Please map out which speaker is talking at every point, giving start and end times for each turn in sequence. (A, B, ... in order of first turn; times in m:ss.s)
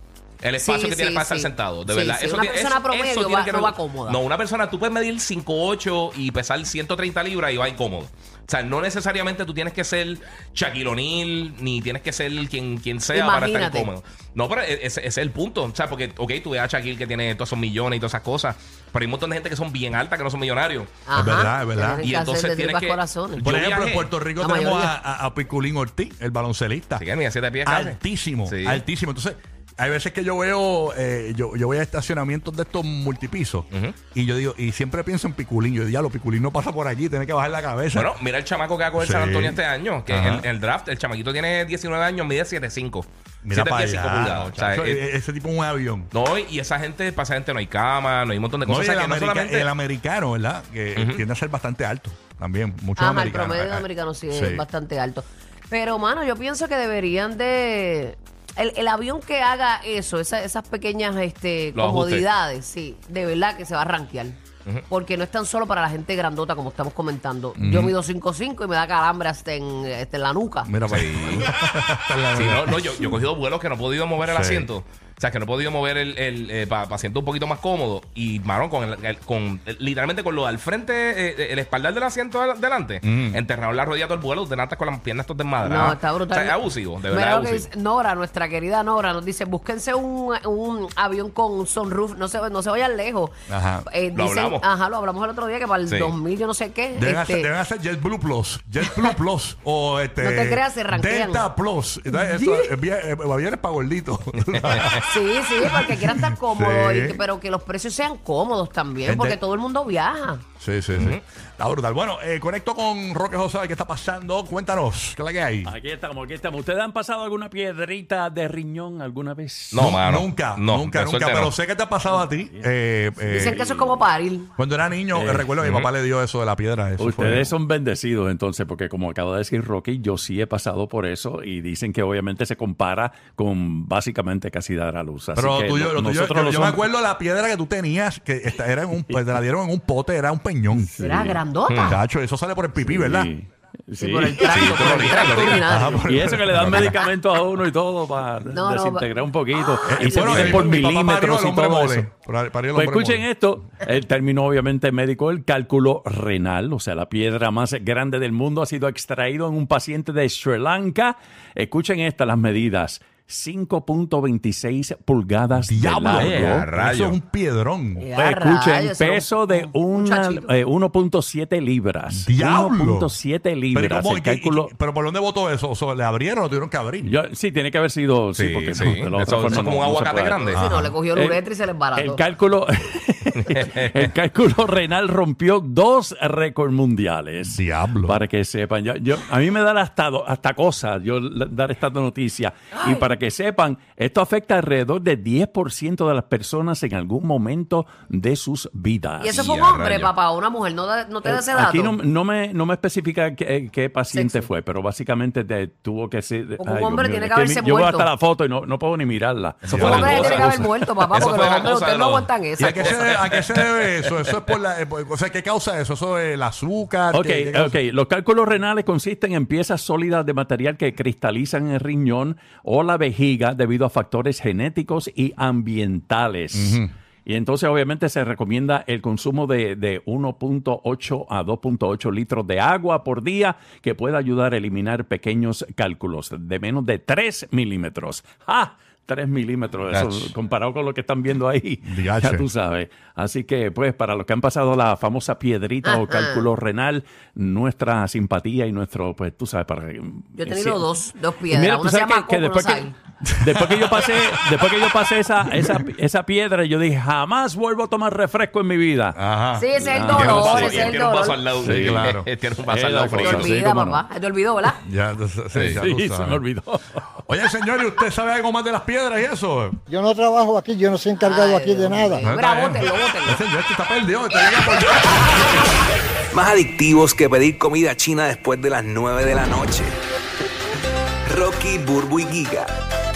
0:00.4-0:20.9 A
0:00.6-0:04.2 B
0:13.1-0:13.9 B
0:21.0-0:23.5 B
0:21.1-0:22.1 C
0:22.0-0:24.1 A
0:23.4-0:27.0 C
0:24.4-0:25.0 B
0:27.0-0:28.8 A
0:27.6-0:38.1 C
0:33.7-0:34.0 A
0:37.9-0:45.0 A
0:39.0-0:40.5 C
0:43.4-0:46.1 C
0:46.1-0:49.7 A
0:48.6-0:54.6 C
0:50.9-0:51.2 A
0:53.0-1:10.7 B
1:01.7-1:02.2 A
1:07.6-1:07.9 C
1:10.6-1:13.2 C
1:10.9-1:11.5 A
1:12.3-1:27.7 A
1:14.2-1:14.7 C
1:23.0-1:23.4 C
1:25.6-1:33.3 B
1:33.5-1:33.8 C
1:33.8-1:37.5 B
1:34.1-1:34.6 A
1:35.9-1:36.1 A
1:37.0-1:47.2 C
1:38.8-1:39.1 B
1:40.2-1:41.5 B
1:42.1-1:42.7 B
1:44.5-1:45.0 A
1:45.0-1:50.4 B
1:49.0-1:49.4 C
1:50.6-1:55.7 C
1:50.9-1:51.2 A
1:55.6-1:59.9 D
1:59.7-2:01.6 A
1:59.7-2:03.6 C
2:02.1-2:02.7 D
2:03.3-2:04.5 B
2:03.3-2:04.0 D
2:04.6-2:07.5 C
2:05.1-2:05.5 D
2:05.6-2:05.9 A
2:07.0-2:16.9 D
2:15.3-2:20.9 C
2:20.7-2:21.4 D
2:21.0-2:22.0 B
2:21.7-2:22.0 A
2:21.8-2:23.3 C
2:22.8-2:24.6 D
2:24.0-2:26.1 B
2:24.5-2:25.6 A
2:24.5-2:27.0 C
2:26.1-2:32.1 D
2:26.5-2:26.9 A
2:28.5-2:30.8 B
2:29.8-2:33.3 C
2:32.7-2:46.6 D
2:45.6-2:48.1 C
2:46.1-2:47.2 A
2:48.0-2:50.5 B
2:48.1-2:54.7 D
2:52.1-2:53.2 C
2:53.7-2:57.1 C
2:57.0-3:19.5 D
2:58.3-3:00.6 A
3:00.5-3:00.9 C
3:00.5-3:02.2 B
3:03.4-3:03.8 A
3:07.5-3:08.2 C
3:12.7-3:13.1 B
3:19.2-3:22.0 B
3:19.3-3:20.1 A
3:21.2-3:31.4 D
3:24.1-3:24.5 B
3:26.6-3:28.1 B
3:29.6-3:30.5 A
3:29.7-3:30.3 C
3:29.8-3:32.9 B
3:31.1-3:34.1 A
3:32.6-3:37.8 C
3:37.1-4:10.8 D
3:46.5-3:46.9 C
3:59.9-4:00.3 A
4:01.8-4:02.5 C
4:05.8-4:06.5 B
4:10.4-4:13.0 B
4:11.5-4:19.2 D
4:13.3-4:14.7 C
4:19.1-4:20.7 C
4:19.5-4:21.4 B
4:19.8-4:21.0 D
4:20.1-4:23.6 A
4:21.6-4:22.1 D
4:21.7-4:22.2 C
4:22.6-4:24.0 D
4:23.2-4:24.8 B
4:24.8-4:26.4 C
4:25.7-4:27.2 D
4:27.3-4:29.8 C
4:29.9-4:32.2 E
4:31.2-4:33.4 B
4:32.2-4:35.7 C
4:36.3-4:39.9 F
4:41.3-4:42.7 F